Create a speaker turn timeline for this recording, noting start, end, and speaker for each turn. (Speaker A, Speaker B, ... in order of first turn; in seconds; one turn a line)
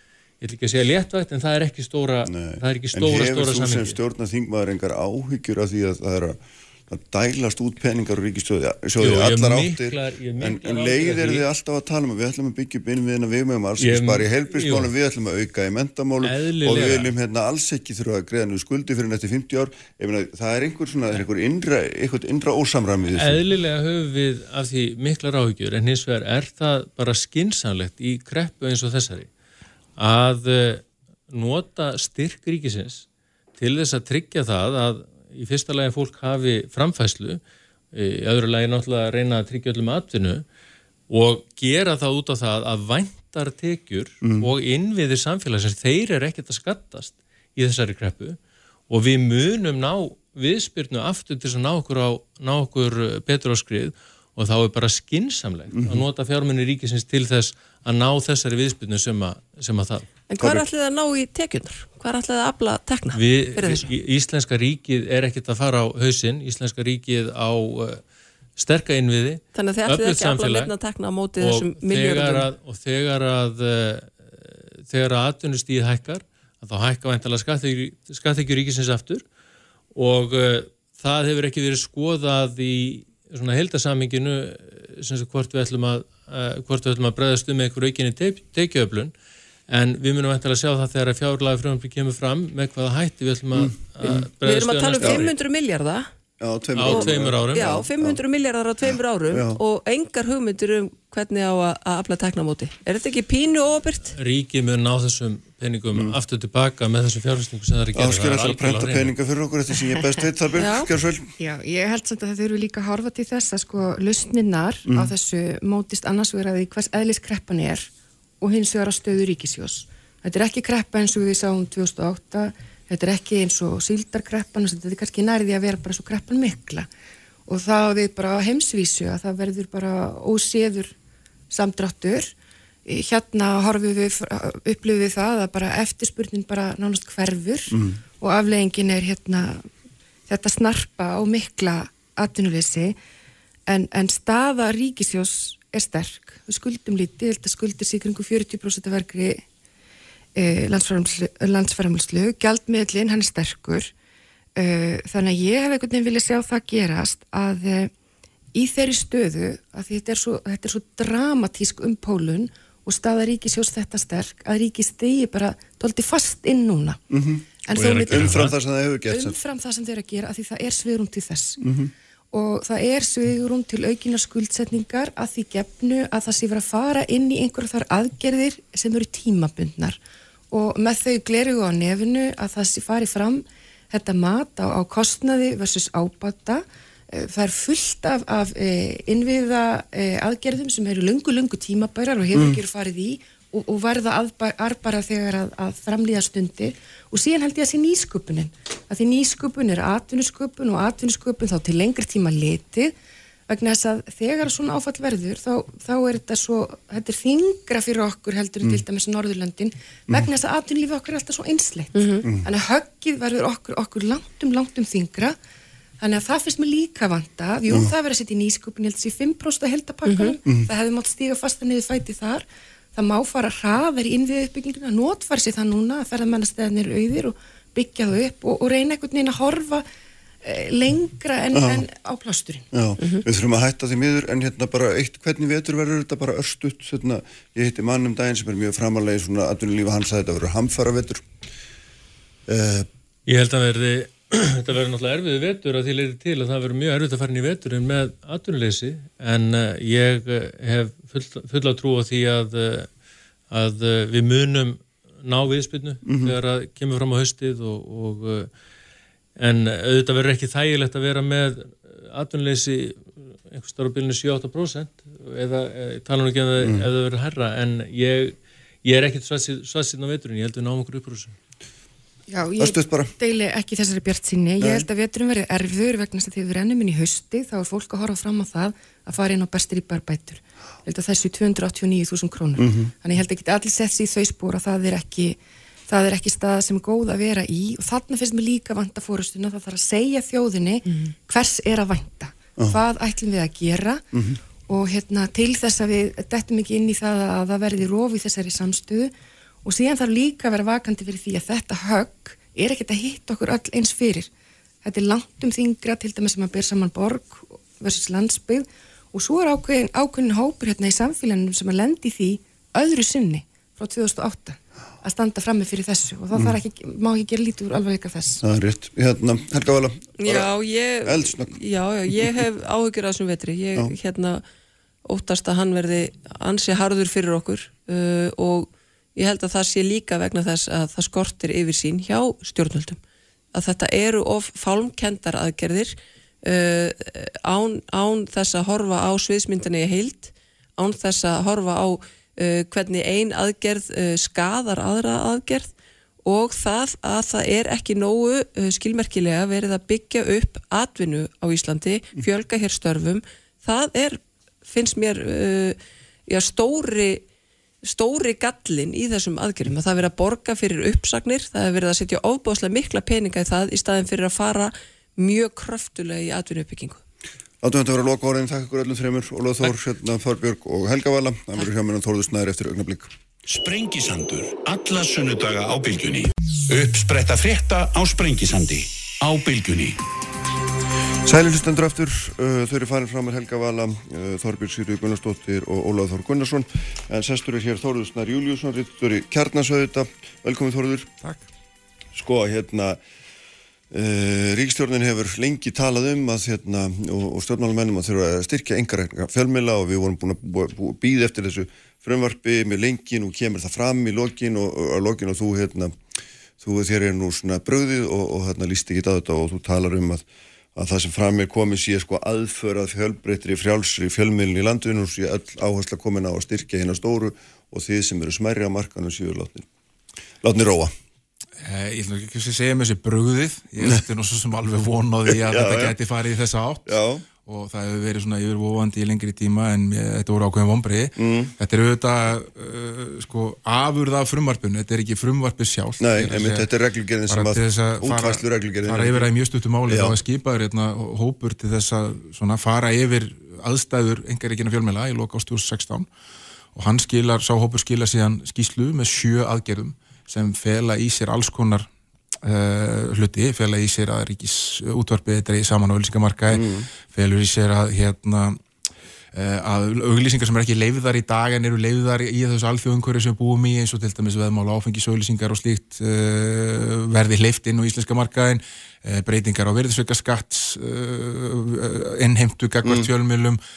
Speaker A: 0.4-4.0
Speaker B: 2.3-6.4
Speaker B: 6.9-23.4
Speaker A: 9.0-11.4
Speaker A: 13.8-14.9
Speaker A: 16.2-17.1
Speaker A: 23.1-29.3
Speaker A: 30.0-33.0
Speaker A: 33.6-37.4
Speaker A: 37.9-40.4
Speaker A: 41.1-48.4
Speaker B: 44.2-44.5
Speaker A: 48.9-60.1
Speaker B: 55.7-56.0
Speaker C: 60.3-63.9
Speaker B: 60.4-60.7
Speaker A: 63.1-68.0
Speaker A: 68.6-70.7
Speaker C: 69.5-72.5
Speaker A: 71.4-74.2
Speaker A: 74.8-79.2
Speaker A: 80.0-89.1
Speaker A: 89.7-95.4
Speaker B: 93.5-94.3
Speaker C: 94.4-96.1
Speaker B: 96.4-98.2
Speaker A: 96.8-97.8
Speaker C: 96.8-104.1
Speaker B: 99.3-99.6
Speaker A: 104.1-109.2
Speaker B: 108.0-111.3
Speaker C: 110.6-110.9
Speaker D: 111.4-117.9
Speaker B: 114.9-115.1
Speaker D: 118.4-126.9
Speaker D: 127.5-130.9
Speaker D: 131.5-132.3
Speaker D: 132.9-139.7
Speaker B: 137.7-138.0
Speaker D: 140.3-143.0
Speaker D: 143.7-149.4
Speaker D: 150.4-153.9
Speaker D: 154.6-157.9
Speaker D: 158.5-167.0
Speaker B: 167.1-169.4
Speaker D: 167.7-168.4
Speaker A: 167.7-168.6
Speaker D: 169.1-171.6
Speaker B: 171.6-171.9
Speaker D: 172.3-180.0
Speaker D: 180.5-202.9
Speaker B: 192.3-192.6
Speaker D: 203.5-215.4
Speaker C: 211.9-212.2
Speaker D: 216.0-229.8
Speaker C: 220.1-220.4
Speaker D: 230.4-232.7
Speaker B: 231.5-231.8
Speaker B: 232.7-241.2
Speaker C: 233.0-233.2
Speaker B: 242.5-242.9
Speaker A: 243.3-252.9
Speaker A: 253.5-258.5
Speaker B: 256.1-256.3
Speaker A: 259.4-271.4
Speaker B: 266.6-266.9
Speaker D: 272.3-285.4
Speaker B: 272.6-273.1
Speaker B: 274.6-274.9
Speaker B: 282.6-282.9
Speaker D: 285.9-294.1
Speaker B: 294.1-294.4
Speaker D: 294.7-299.1
Speaker D: 299.6-304.3
Speaker D: 304.8-318.4
Speaker B: 318.4-320.5
Speaker C: 320.2-324.4
Speaker B: 321.0-321.6
Speaker C: 325.1-333.0
Speaker C: 333.5-345.7
Speaker C: 346.2-355.8
Speaker C: 356.3-357.2
Speaker C: 357.8-367.0
Speaker B: 367.6-373.1
Speaker E: 373.4-380.0
Speaker B: 381.2-391.1
Speaker F: 391.2-391.5
Speaker B: 392.1-393.0
Speaker B: 393.9-405.9
Speaker B: 406.6-410.2
Speaker B: 410.8-419.7
Speaker B: 420.4-420.9
Speaker F: 421.6-436.7
Speaker B: 425.3-425.9
Speaker B: 426.9-427.2
Speaker B: 431.2-431.5
Speaker B: 436.0-439.3
Speaker F: 437.3-446.1
Speaker B: 439.9-440.2
Speaker F: 446.7-451.9
Speaker F: 452.4-458.6
Speaker B: 456.5-456.9
Speaker F: 459.3-473.6